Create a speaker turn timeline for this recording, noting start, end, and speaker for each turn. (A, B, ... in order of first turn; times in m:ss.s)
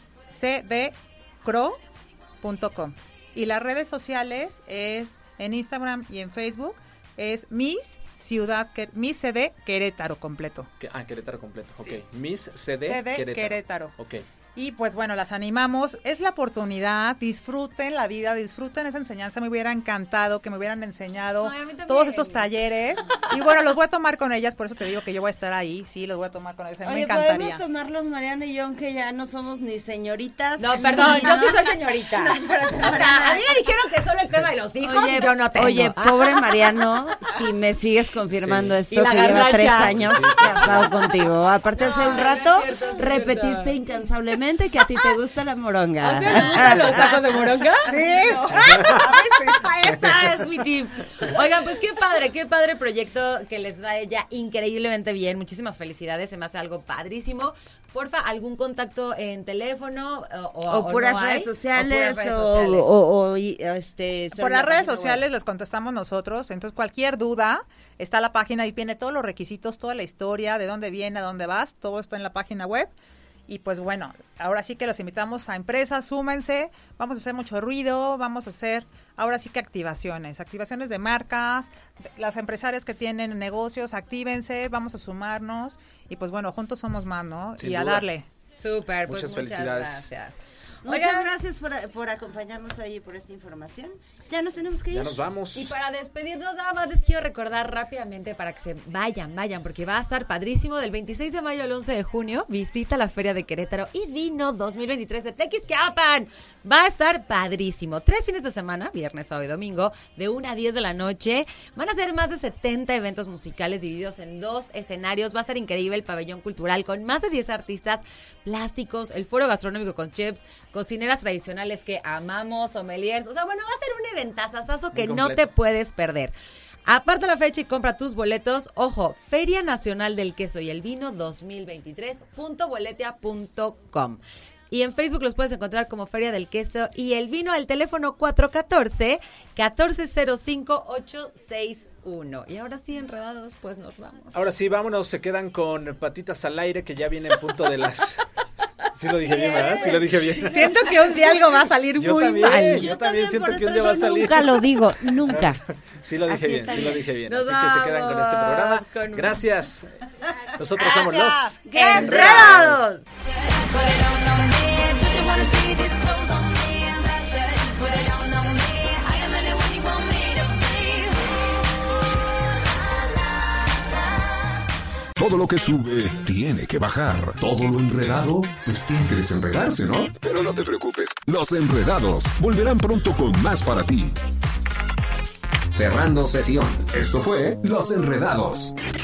0:00.3-0:01.8 A
0:02.4-0:10.7 A
0:10.8-0:14.2 B
0:12.8-0:13.9 A
0:14.5-0:27.6 A
0:21.4-0:22.5 C
0:26.8-0:33.6 D
0:30.6-0:37.4 C
0:34.8-0:50.3 D
0:38.3-0:38.8 B
0:38.9-0:41.1 C
0:39.5-0:40.9 B
0:41.8-0:43.8 C
0:46.0-0:48.0 C
0:47.9-0:48.5 A
0:48.5-0:49.0 B
0:48.6-1:02.9 C
1:00.7-1:05.2 D
1:04.3-1:12.9 A
1:13.5-1:28.2 A
1:27.6-1:28.0 B
1:28.6-1:31.3 C
1:29.1-1:30.1 B
1:30.8-1:35.2 D
1:34.9-1:35.7 B
1:35.5-2:06.3 C
2:04.9-2:05.5 B
2:06.8-2:24.4 C
2:24.3-2:28.2 B
2:28.9-2:31.0 B
2:29.2-2:31.1 D
2:30.4-2:32.9 C
2:31.8-2:34.7 B
2:32.5-2:35.6 D
2:35.2-2:39.9 B
2:36.2-2:37.0 D
2:37.2-2:39.4 C
2:40.6-2:42.8 B
2:40.8-2:41.5 A
2:41.6-2:42.7 D
2:41.7-2:43.0 C
2:43.1-2:51.8 E
2:55.2-3:04.2 F
3:05.7-3:08.7 F